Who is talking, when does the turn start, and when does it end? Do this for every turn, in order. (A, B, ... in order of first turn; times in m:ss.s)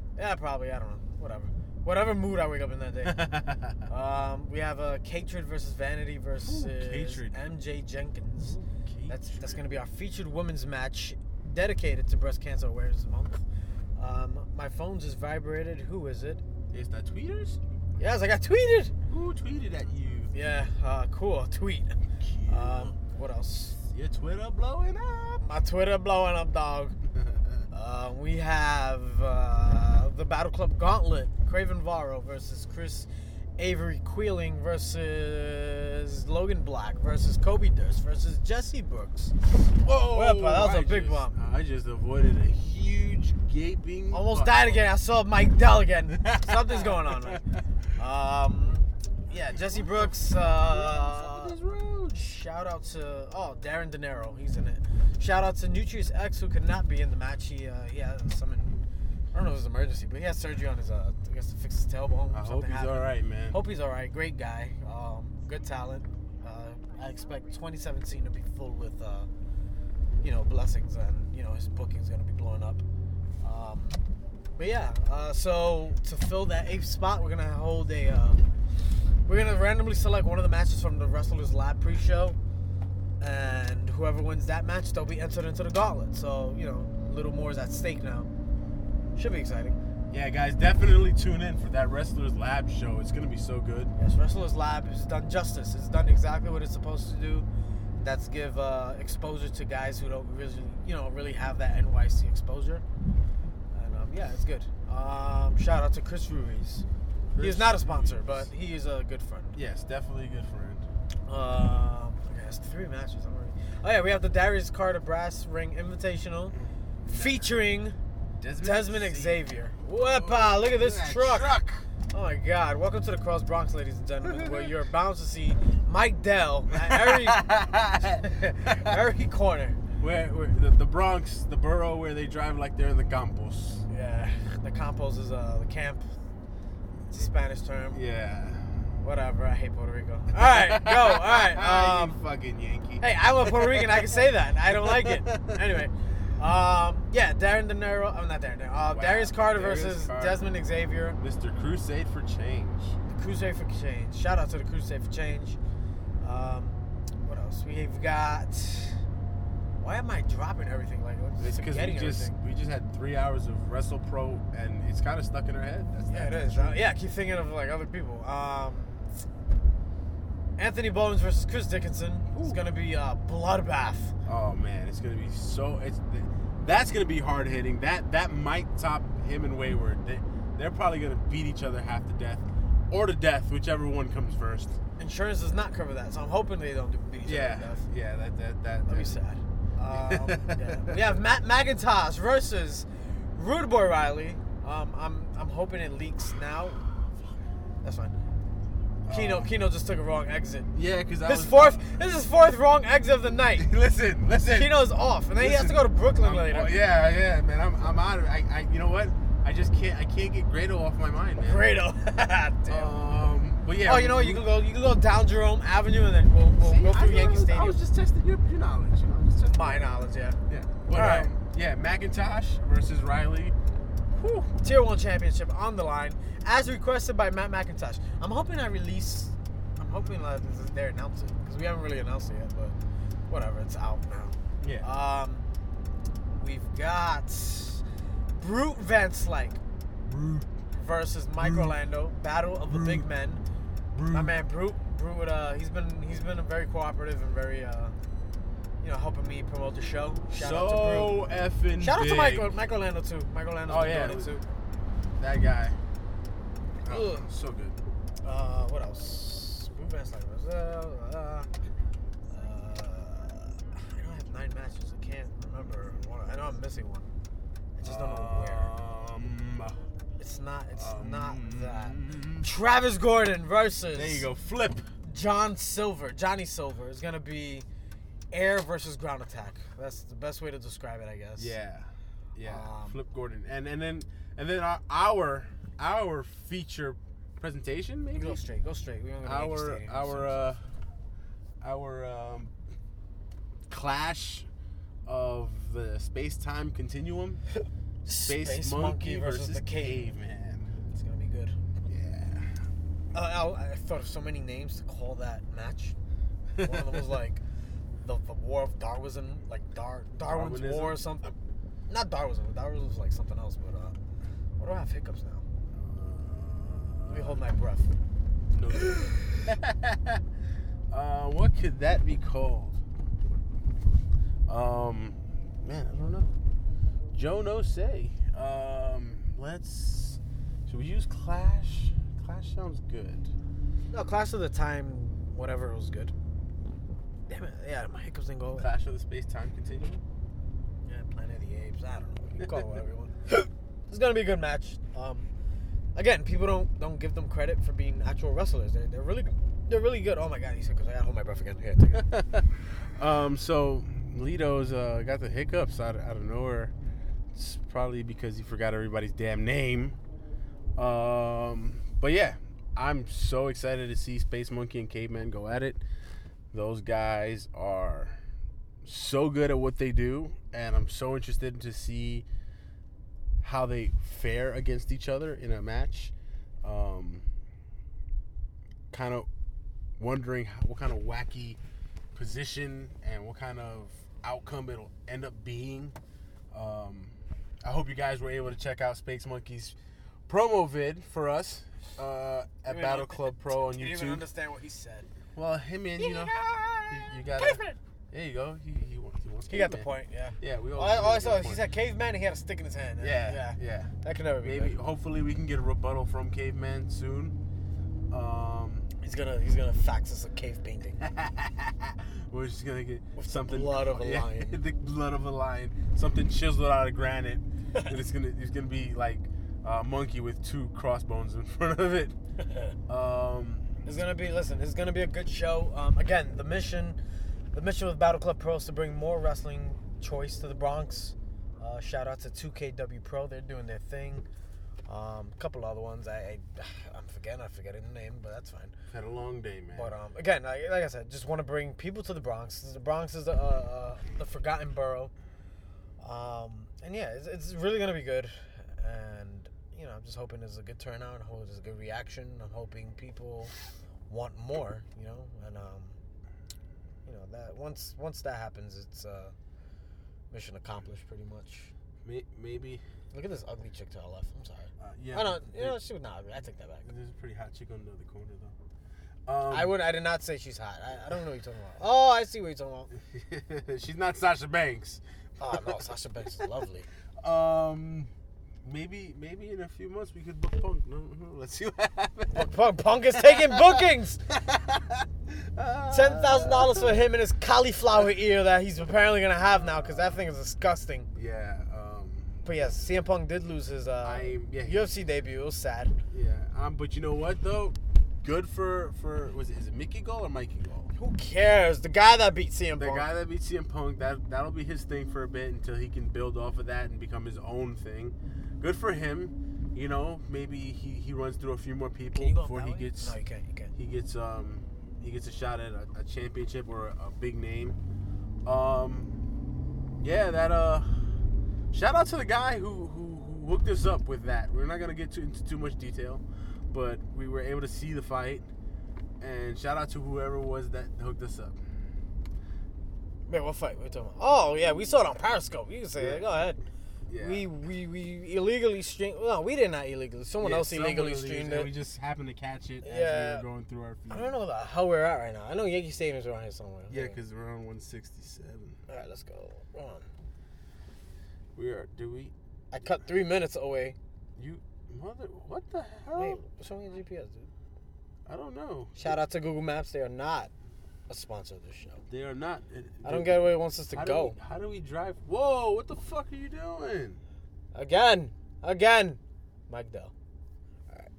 0:00.2-0:08.6 A
0:03.0-0:03.9 B
0:06.4-0:07.4 B
0:08.4-0:09.6 B
0:09.1-0:13.4 A
0:14.0-0:16.4 A
0:16.7-0:17.6 B
0:18.0-0:18.9 A
0:19.1-0:20.3 B
0:20.3-0:23.8 A
0:22.2-0:22.9 B
0:23.7-0:25.4 B
0:25.4-0:27.0 A
0:27.1-0:27.6 B
0:27.7-0:39.3 A
0:39.7-0:44.8 B
0:40.1-0:41.4 A
0:44.1-0:47.4 A
0:46.2-0:47.4 B
0:48.0-0:51.6 A
0:49.5-0:52.3 B
0:52.1-1:09.3 A
1:02.3-1:03.6 B
1:10.2-1:12.8 A
1:13.4-1:14.0 A
1:14.6-1:18.4 A
1:19.2-1:22.4 A
1:23.2-1:28.3 A
1:29.1-1:29.8 A
1:30.1-1:33.9 B
1:34.0-1:42.8 A
1:43.7-1:46.8 A
1:47.3-1:48.5 B
1:47.4-1:49.6 A
1:49.5-1:50.9 B
1:51.3-1:58.0 A
1:56.6-1:57.5 B
1:58.4-2:01.9 B
1:58.6-2:09.8 A
2:04.2-2:04.7 B
2:06.7-2:09.0 B
2:10.0-2:13.8 B
2:13.9-2:16.0 A
2:17.1-2:18.0 A
2:17.9-2:18.8 B
2:19.0-2:22.2 A
2:20.3-2:25.8 B
2:23.0-2:31.2 A
2:28.9-2:30.4 B
2:31.2-2:33.0 B
2:33.1-2:35.6 A
2:36.2-2:39.0 A
2:39.8-2:42.4 A
2:41.4-2:46.8 B
2:46.1-2:49.0 A
2:50.6-2:54.1 A
2:52.3-2:52.6 B
2:54.2-3:04.8 B
3:05.0-3:07.8 A
3:07.2-3:09.2 B
3:08.9-3:16.9 A
3:09.9-3:11.2 B
3:17.8-3:18.1 A
3:19.0-3:19.5 B
3:19.1-3:20.7 A
3:20.7-3:21.8 B
3:21.2-3:23.7 A
3:23.6-3:24.8 B
3:24.4-3:26.8 A
3:25.4-3:31.7 B
3:31.4-3:33.0 A
3:32.7-3:34.4 B
3:33.8-3:37.8 A
3:36.6-3:39.9 B
3:39.5-3:40.4 A
3:40.5-3:43.5 B
3:40.9-3:41.3 A
3:44.1-3:44.5 B
3:44.6-3:52.7 A
3:53.3-3:55.4 A
3:54.6-3:54.9 B
3:56.4-3:57.8 A
3:58.4-3:59.6 A
4:00.0-4:00.5 B
4:00.7-4:03.4 A
4:01.4-4:01.8 B
4:02.7-4:03.1 B
4:03.9-4:04.3 B
4:04.1-4:07.9 A
4:08.8-4:11.2 A
4:10.3-4:12.5 B
4:11.8-4:14.4 A
4:13.7-4:14.3 B
4:15.2-4:15.8 B
4:16.8-4:17.3 A
4:16.8-4:17.8 B
4:18.2-4:21.5 A
4:22.3-4:27.1 A
4:27.8-4:28.7 A
4:27.8-4:29.8 B
4:30.2-4:34.3 A
4:30.7-4:32.5 B
4:33.9-4:34.9 B
4:35.0-4:37.6 A
4:38.3-4:41.6 A
4:41.4-4:48.4 B
4:42.4-4:43.0 A
4:48.1-4:50.5 A
4:49.2-4:50.6 B
4:51.6-4:52.5 B
4:53.7-4:54.5 B
4:55.0-4:57.4 B
4:58.0-5:00.1 A
4:58.2-5:00.7 B
5:00.9-5:01.6 A
5:01.8-5:02.5 B
5:03.1-5:05.9 A
5:06.6-5:07.0 B
5:06.6-5:07.4 A
5:08.0-5:11.4 A
5:10.3-5:11.0 B
5:11.9-5:14.0 A
5:14.6-5:15.4 A
5:15.7-5:17.4 B
5:17.1-5:17.9 A
5:18.5-5:20.2 B
5:20.9-5:22.8 B
5:24.5-5:26.3 B
5:27.1-5:33.3 B
5:33.9-5:36.1 A
5:37.3-5:38.7 A
5:38.6-5:40.0 B
5:40.8-5:45.3 A
5:42.4-5:42.6 B
5:45.9-5:52.1 A
5:52.1-5:52.4 B
5:53.0-5:56.7 B
5:57.3-6:00.0 B
6:00.8-6:05.8 B
6:06.5-6:08.2 B
6:08.8-6:12.2 B
6:13.4-6:17.2 B
6:18.9-6:19.3 B
6:20.0-6:21.6 B
6:22.1-6:26.0 B
6:26.5-6:29.8 B
6:30.3-6:34.2 B
6:32.6-6:35.1 A
6:35.3-6:39.9 B
6:36.0-6:37.8 A
6:39.5-6:44.8 A
6:40.4-6:41.6 B
6:43.0-6:47.4 B
6:48.1-6:48.9 B
6:49.0-6:51.0 A
6:51.0-7:02.1 B
6:53.2-6:54.6 A
7:02.4-7:02.7 A
7:02.9-7:03.7 B
7:03.8-7:07.0 A
7:07.5-7:14.2 A
7:14.9-7:18.7 A
7:18.9-7:20.0 B
7:19.7-7:25.1 A
7:26.0-7:33.5 A
7:34.1-7:36.0 A
7:37.0-7:39.3 A
7:40.3-7:41.7 A
7:42.0-7:42.8 B
7:43.1-7:46.9 A
7:44.8-7:45.8 B
7:46.9-7:48.5 B
7:49.3-7:49.8 B
7:49.5-7:52.9 A
7:53.1-7:55.8 B
7:55.4-7:56.9 A
7:57.2-7:58.1 B
7:58.6-8:02.5 B
8:02.3-8:04.3 A
8:03.1-8:07.0 B
8:05.9-8:11.1 A
8:09.5-8:10.2 B
8:11.1-8:12.4 B
8:12.4-8:16.0 A
8:14.0-8:14.9 B
8:16.1-8:20.9 B
8:20.9-8:23.1 A
8:22.8-8:33.2 B
8:32.1-8:33.7 A
8:33.7-8:37.8 B
8:38.4-8:39.2 B
8:40.0-8:41.1 B
8:41.7-8:48.5 B
8:49.2-8:51.6 B
8:53.3-8:56.6 A
8:56.0-8:56.2 B
8:57.1-8:57.4 B
8:57.2-9:01.7 A
9:00.4-9:04.3 B
9:02.8-9:03.4 A
9:04.1-9:07.2 A
9:06.9-9:08.8 B
9:08.9-9:10.1 A
9:11.6-9:12.3 B
9:12.7-9:14.0 A
9:14.4-9:16.4 B
9:16.2-9:17.5 A
9:18.2-9:19.2 B
9:19.0-9:20.5 A
9:21.1-9:22.0 A
9:22.1-9:27.2 B
9:23.0-9:24.4 A
9:27.7-9:30.1 A